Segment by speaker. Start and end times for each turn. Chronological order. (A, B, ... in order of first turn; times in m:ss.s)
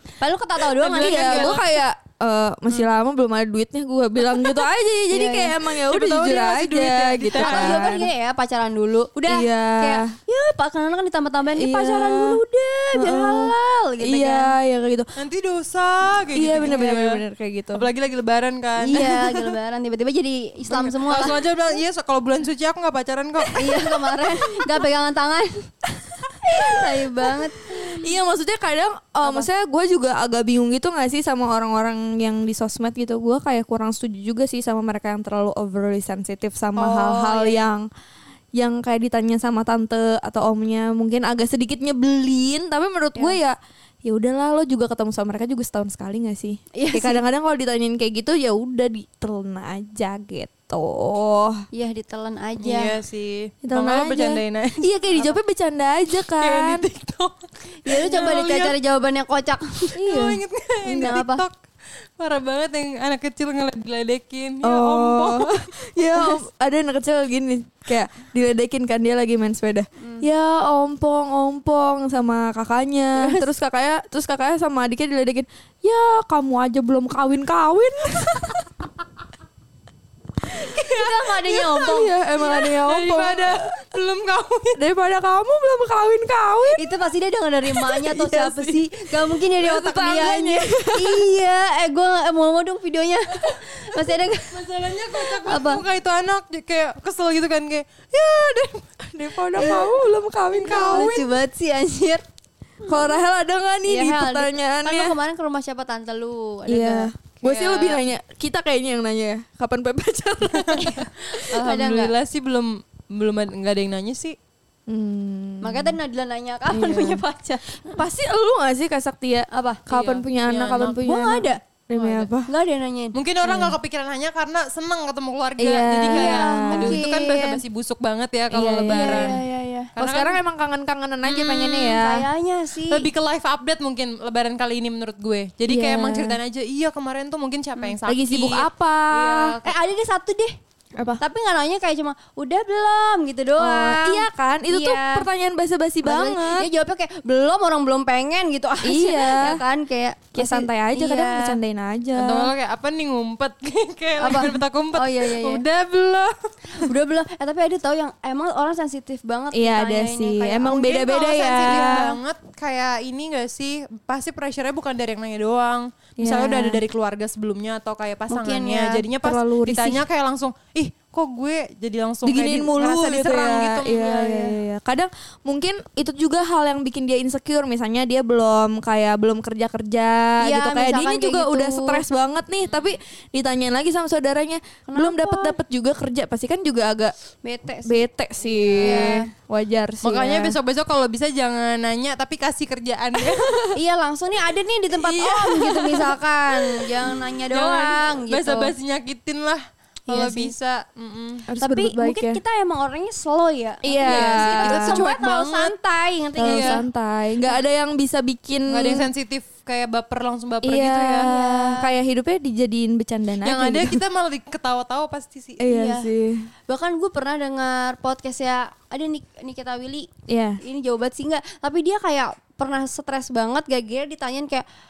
0:00.2-0:01.6 A
0:00.8-0:01.7 B
0:00.8-0:08.1 C
0:04.3-0:04.6 B
0:05.1-0:05.6 A
0:05.7-0:08.0 B
0:07.3-0:14.6 A
0:09.3-0:10.1 C
0:11.5-0:12.4 C
0:13.0-0:15.1 C
0:15.2-0:17.2 B
0:16.4-0:17.9 C
0:17.7-0:19.0 B
0:18.8-0:21.4 A
0:18.9-0:19.6 C
0:20.7-0:23.8 B
0:23.5-0:25.6 A
0:23.7-0:23.9 C
0:26.4-0:28.1 A
0:26.6-0:37.9 C
0:29.2-0:29.5 A
0:36.8-0:37.6 A
0:36.8-0:37.4 B
0:38.6-0:51.6 C
0:46.8-0:47.2 A
0:51.7-0:52.9 A
0:52.6-0:55.4 B
0:53.6-0:56.9 C
0:56.1-0:58.8 B
0:57.8-1:00.0 A
1:00.0-1:01.2 C
1:00.0-1:01.5 B
1:00.9-1:01.4 A
1:02.2-1:06.4 B
1:04.6-1:18.7 C
1:10.0-1:10.3 A
1:13.1-1:13.5 A
1:20.6-1:22.1 A
1:21.5-1:23.6 C
1:22.3-1:24.8 B
1:24.8-1:26.8 C
1:26.8-1:35.8 A
1:27.7-1:28.8 C
1:29.6-1:31.3 C
1:33.6-1:38.8 B
1:39.1-1:41.2 C
1:39.6-1:39.9 A
1:39.6-1:39.9 B
1:40.6-1:41.3 B
1:40.6-1:42.2 A
1:42.9-1:45.2 C
1:43.9-1:47.1 A
1:46.7-1:51.1 C
1:47.4-1:48.1 B
1:50.5-1:54.4 B
1:51.5-1:52.1 A
1:54.9-1:56.0 C
1:55.6-1:58.0 A
1:56.7-1:57.2 C
1:57.9-2:02.5 C
1:59.5-1:59.8 A
1:59.9-2:01.1 B
2:01.0-2:01.6 A
2:01.9-2:02.3 B
2:02.5-2:03.2 A
2:03.1-2:09.4 B
2:03.4-2:03.8 C
2:05.6-2:07.0 C
2:06.1-2:07.6 A
2:08.5-2:09.4 C
2:08.9-2:09.9 A
2:10.0-2:10.4 B
2:10.0-2:12.3 C
2:11.2-2:12.0 B
2:12.0-2:13.1 A
2:12.8-2:19.7 B
2:15.7-2:16.4 C
2:18.1-2:19.6 C
2:19.6-2:20.5 A
2:21.2-2:25.3 A
2:23.6-2:26.7 C
2:26.0-2:31.6 A
2:28.8-2:29.6 C
2:30.3-2:32.5 C
2:32.2-2:36.9 B
2:34.2-2:35.6 A
2:36.7-2:42.2 A
2:39.5-2:42.2 C
2:41.1-2:54.1 B
2:46.2-2:46.8 C
2:48.3-2:49.0 A
2:49.2-2:50.0 C
2:52.2-3:07.2 C
2:54.0-2:54.6 A
3:00.4-3:02.0 A
3:02.6-3:03.0 B
3:04.9-3:05.6 A
3:07.4-3:08.1 A
3:07.9-3:10.6 C
3:08.4-3:09.2 B
3:08.8-3:09.3 A
3:10.0-3:13.6 B
3:13.2-3:13.8 C
3:13.7-3:18.7 A
3:15.0-3:16.0 C
3:15.9-3:16.2 B
3:17.0-3:21.5 B
3:20.1-3:20.5 A
3:21.5-3:22.4 C
3:21.6-3:26.8 A
3:23.8-3:25.0 C
3:24.0-3:25.8 B
3:26.4-3:26.8 B
3:26.4-3:29.1 C
3:28.7-3:31.3 B
3:30.6-3:34.0 C
3:31.2-3:31.9 A
3:33.4-3:35.6 B
3:35.6-3:36.5 C
3:35.7-3:36.1 A
3:36.7-3:40.1 A
3:40.3-3:40.6 C
3:40.6-3:44.6 A